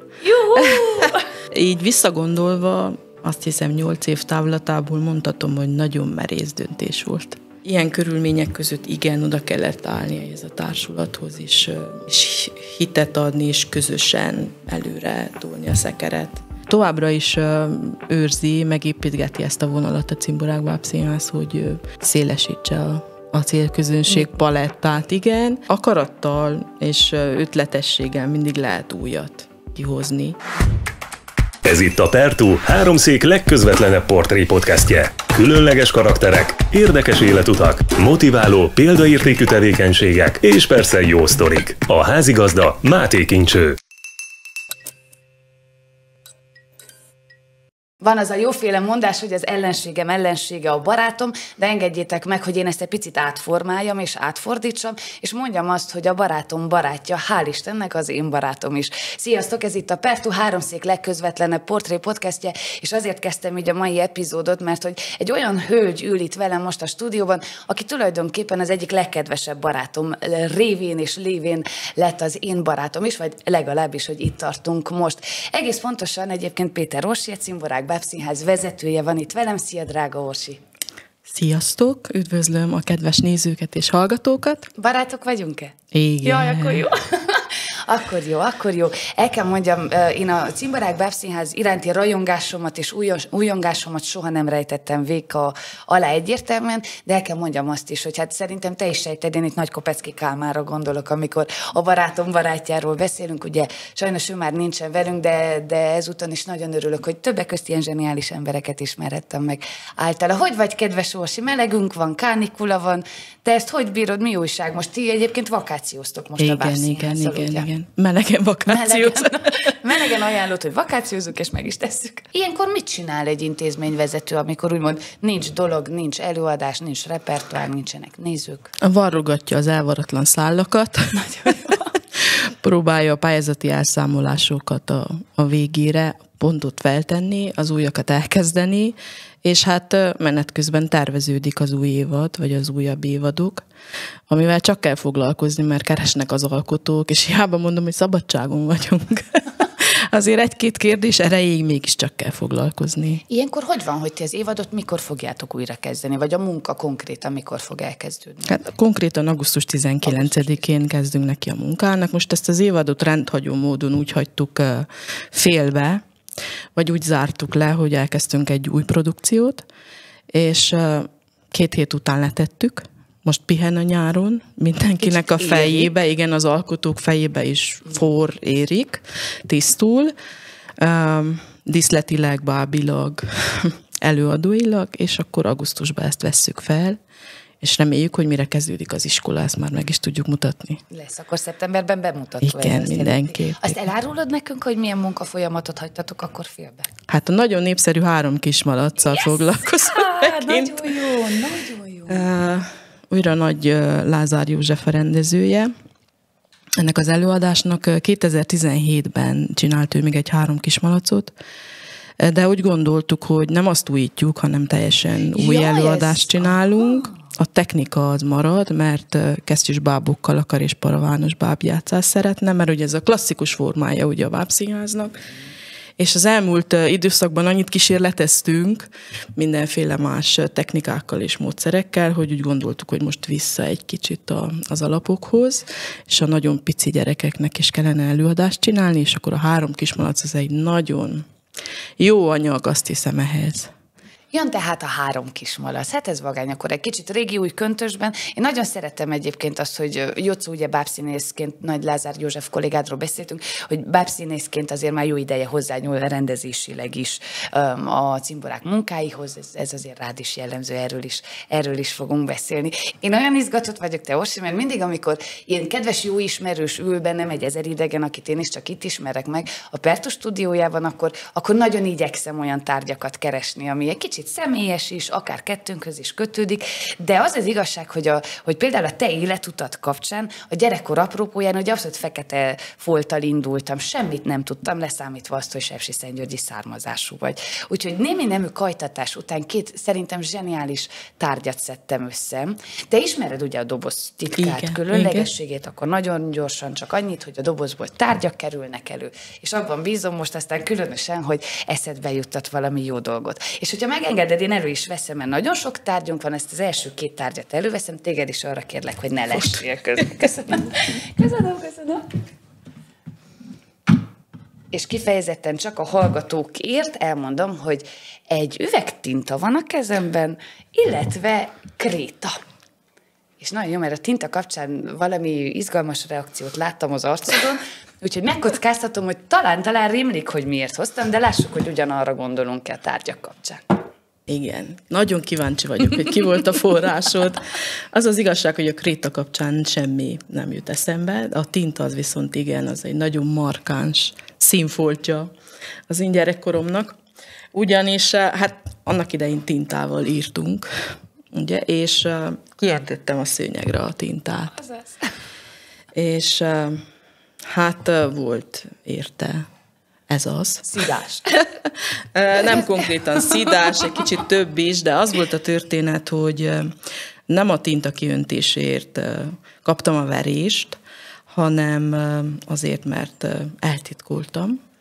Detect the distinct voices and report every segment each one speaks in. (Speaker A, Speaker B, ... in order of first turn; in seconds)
Speaker A: 0.2-1.3, 48.0-80.6, 84.8-117.7, 118.7-128.7, 131.4-131.8, 153.3-158.5, 160.0-160.6, 175.0-175.9, 190.9-196.9, 199.0-202.3, 215.3-217.1, 244.3-312.2, 314.7-322.4, 323.4-333.8, 354.6-355.1, 360.6-361.3, 362.4-364.0
Speaker B: 0.4-30.4, 81.3-84.7, 85.9-86.9, 116.4-119.8, 128.8-143.7, 144.3-153.2, 158.5-166.1, 166.8-169.7, 170.3-180.1, 180.8-187.0, 187.6-190.8, 192.4-193.8, 197.1-200.9, 202.1-205.7, 206.8-211.3, 212.2-225.3, 226.0-241.3, 242.0-243.7, 294.4-295.3, 334.3-345.3, 345.9-347.0, 347.5-350.7, 351.3-354.6, 355.9-356.8, 357.5-359.5, 360.1-360.8, 361.4-366.7, 367.3-374.6
Speaker C: 31.6-43.8